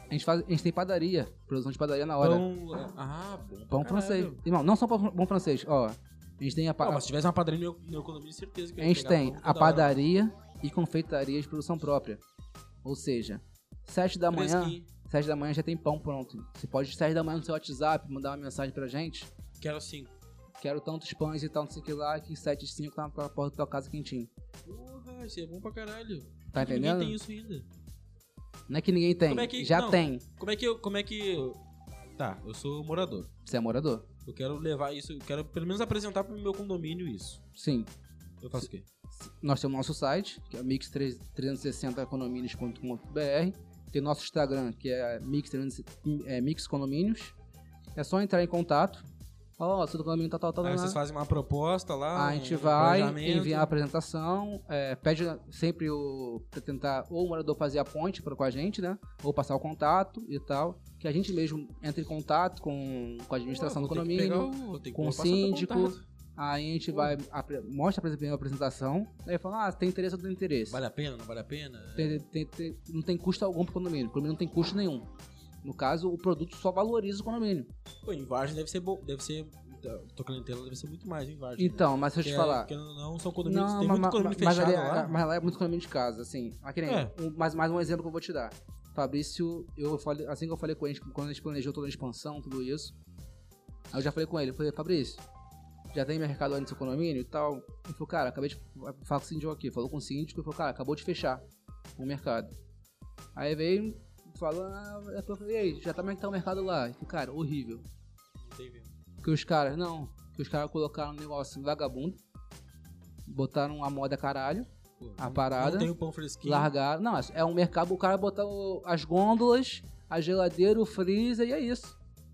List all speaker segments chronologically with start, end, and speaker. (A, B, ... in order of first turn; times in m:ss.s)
0:00.1-0:02.5 A
0:02.2-0:04.4 B
0:03.7-0:07.0 A
0:06.8-0:10.0 B
0:08.8-0:12.2 A
0:12.8-0:19.3 A
0:14.3-0:14.9 B
0:19.6-0:20.1 B
0:20.6-0:24.3 A
0:24.6-0:27.6 B
0:26.5-0:27.2 A
0:28.7-0:30.2 A
0:29.3-0:31.6 B
0:32.2-0:33.3 B
0:33.4-0:34.1 A
0:34.2-0:37.4 B
0:37.6-0:37.9 A
0:38.4-0:38.8 B
0:39.1-0:47.3 A
0:48.0-0:49.0 A
0:49.6-0:51.0 A
0:50.6-0:53.7 B
0:52.1-1:10.8 A
1:03.5-1:06.0 B
1:10.7-1:12.2 B
1:12.0-1:15.1 A
1:15.6-1:17.7 A
1:18.0-1:25.2 B
1:21.6-1:22.7 A
1:23.4-1:32.9 A
1:26.8-1:27.1 B
1:33.9-1:35.2 A
1:35.9-1:41.4 A
1:42.0-1:42.5 A
1:43.3-1:47.8 A
1:48.4-1:48.9 B
1:49.2-1:52.2 A
1:53.2-1:55.9 A
1:55.0-1:56.7 B
1:56.4-2:02.0 A